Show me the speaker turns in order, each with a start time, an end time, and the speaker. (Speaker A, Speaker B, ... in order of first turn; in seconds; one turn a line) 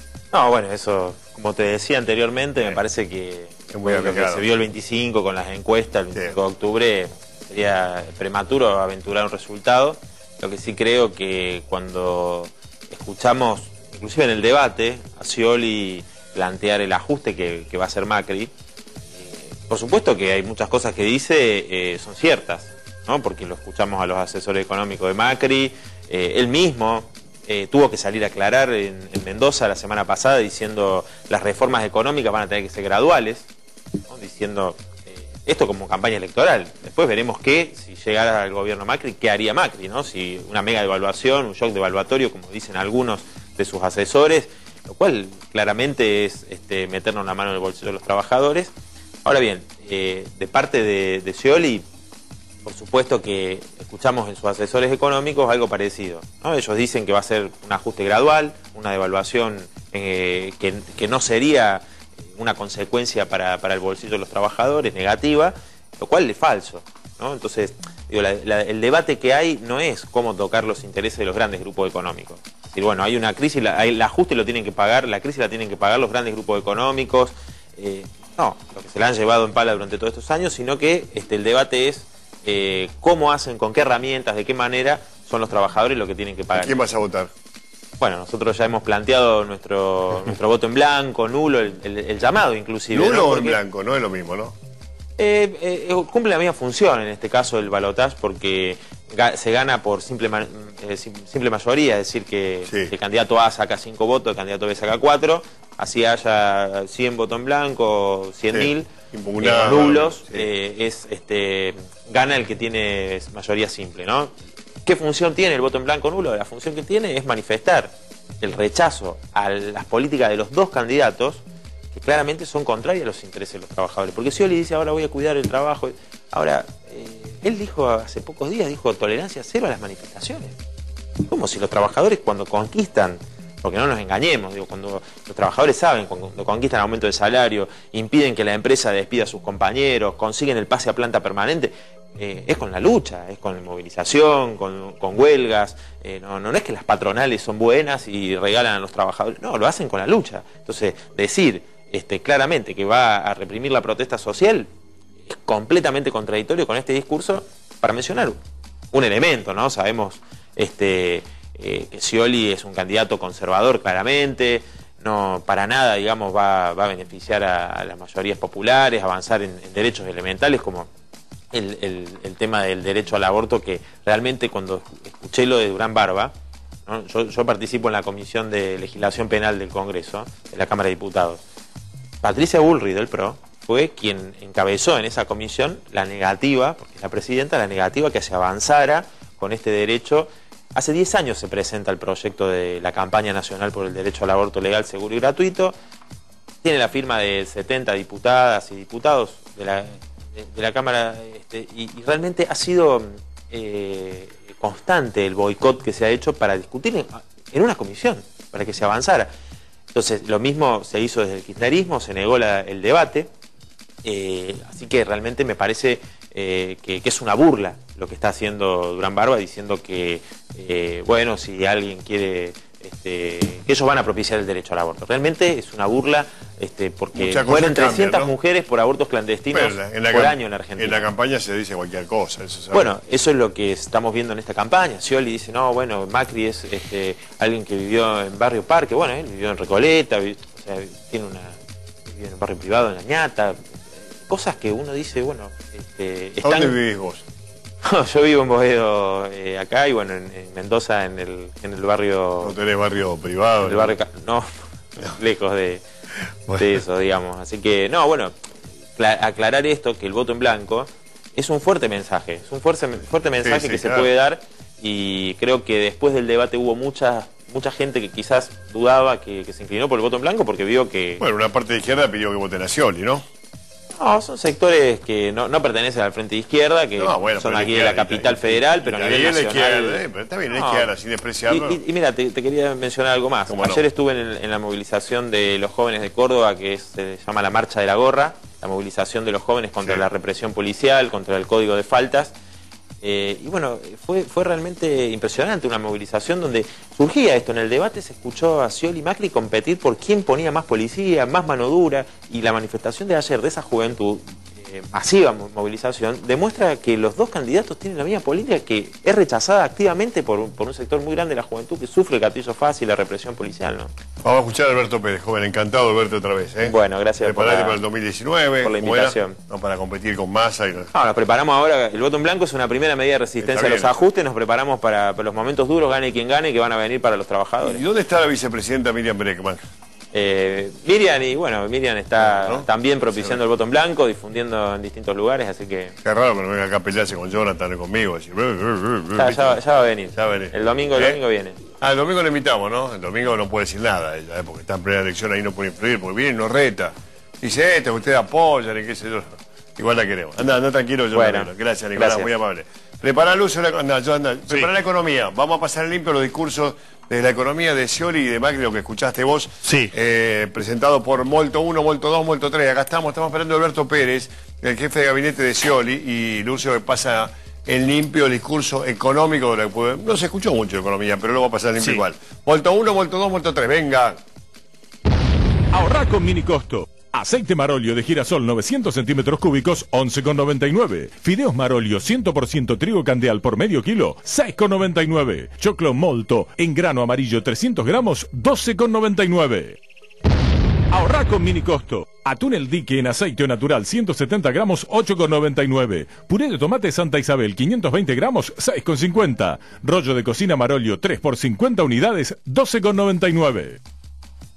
Speaker A: 0.3-18.5
Speaker B: 3.7-4.5
Speaker A: 19.1-33.5
Speaker A: 34.1-48.7
Speaker A: 49.2-51.9
Speaker A: 52.6-86.8
Speaker B: 86.5-87.3
Speaker A: 88.0-93.6
Speaker B: 92.9-94.5
Speaker A: 95.2-108.9
Speaker B: 102.7-102.9
Speaker B: 108.5-110.5
Speaker A: 109.4-114.3
Speaker A: 114.8-130.6
Speaker A: 131.3-154.7
Speaker A: 155.3-158.4
Speaker A: 158.9-170.9
Speaker A: 171.5-176.3
Speaker A: 176.9-181.4
Speaker A: 182.2-195.7
Speaker A: 196.6-209.3
Speaker A: 209.9-213.3
Speaker A: 214.0-231.1
Speaker B: 227.1-228.3
Speaker B: 229.5-232.9
Speaker A: 232.7-243.6
Speaker A: 244.2-246.8
Speaker B: 246.4-247.2
Speaker A: 247.8-252.6
Speaker B: 252.4-253.9
Speaker A: 253.6-254.4
Speaker A: 255.0-255.8
Speaker A: 256.6-258.3
Speaker A: 258.9-271.2
Speaker B: 263.4-264.1
Speaker B: 271.2-273.2
Speaker A: 274.0-280.9
Speaker B: 277.0-281.8
Speaker A: 281.5-292.3
Speaker B: 283.5-283.8
Speaker A: 293.0-313.9
Speaker B: 314.2-320.9
Speaker A: 316.6-317.8
Speaker A: 318.6-319.4
Speaker A: 320.9-327.8
Speaker B: 323.4-324.0
Speaker B: 327.6-329.6
Speaker A: 330.1-335.9
Speaker B: 332.2-333.4
Speaker B: 336.0-339.6
Speaker A: 339.1-341.6
Speaker B: 340.1-341.2
Speaker B: 341.8-374.2
Speaker A: 351.1-352.3
Speaker C: 375.7-389.8
Speaker C: 390.9-403.8